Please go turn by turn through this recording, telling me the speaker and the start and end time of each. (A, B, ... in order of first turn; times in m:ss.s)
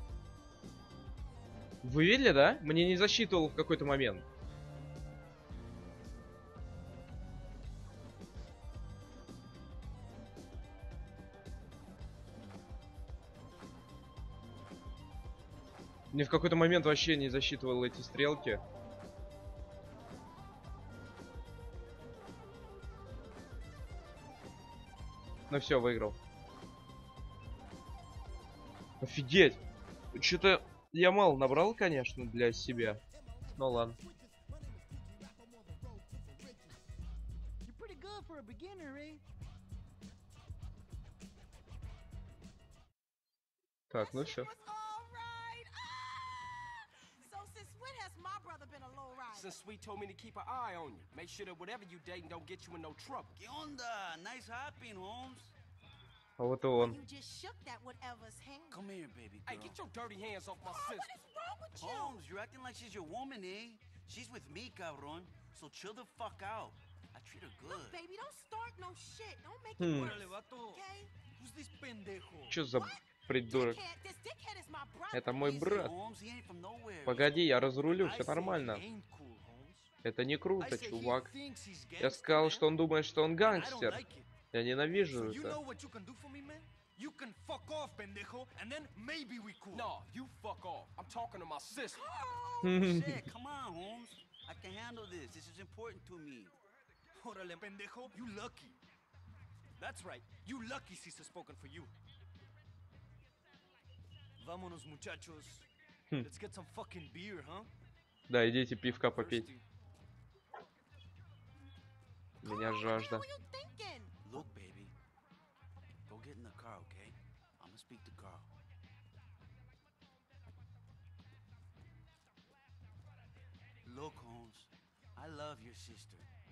0:01.8-0:04.2 A
0:16.1-0:18.6 A
0:25.5-0:26.2 A
0:29.0-0:29.6 A
0:30.1-0:33.0 A
0:33.6-0:34.0 A
0:37.7-0:39.2 B
0:43.9-0:44.5 A
0:44.0-0:49.5 C
0:49.3-0:53.4 D
0:53.4-0:55.5 E
0:56.4-0:57.0 A
0:56.8-0:58.8 C
0:58.7-0:59.8 E
0:59.4-1:01.1 D
1:00.6-1:02.2 C
1:01.8-1:08.0 E
1:07.7-1:11.1 C
1:09.8-1:10.2 A
1:10.0-1:12.6 B
1:12.5-1:13.8 A
1:12.8-1:15.4 C
1:15.1-1:15.9 A
1:15.5-1:17.7 E
1:17.1-1:18.8 A
1:17.8-1:19.9 B
1:20.0-1:21.3 A
1:20.6-1:22.7 B
1:22.0-1:25.6 A
1:23.4-1:24.3 B
1:25.1-1:29.9 B
1:29.7-1:32.1 D
1:32.5-1:36.6 E
1:32.6-1:33.3 A
1:37.1-1:38.8 B
1:39.8-1:41.9 B
1:44.4-1:45.7 B
1:46.2-1:47.7 B
1:48.3-1:49.5 A
1:49.1-1:49.6 B
1:52.4-1:53.2 A
1:52.4-1:54.1 C
1:54.2-1:54.9 E
1:56.1-1:58.5 E
2:03.8-2:06.3 E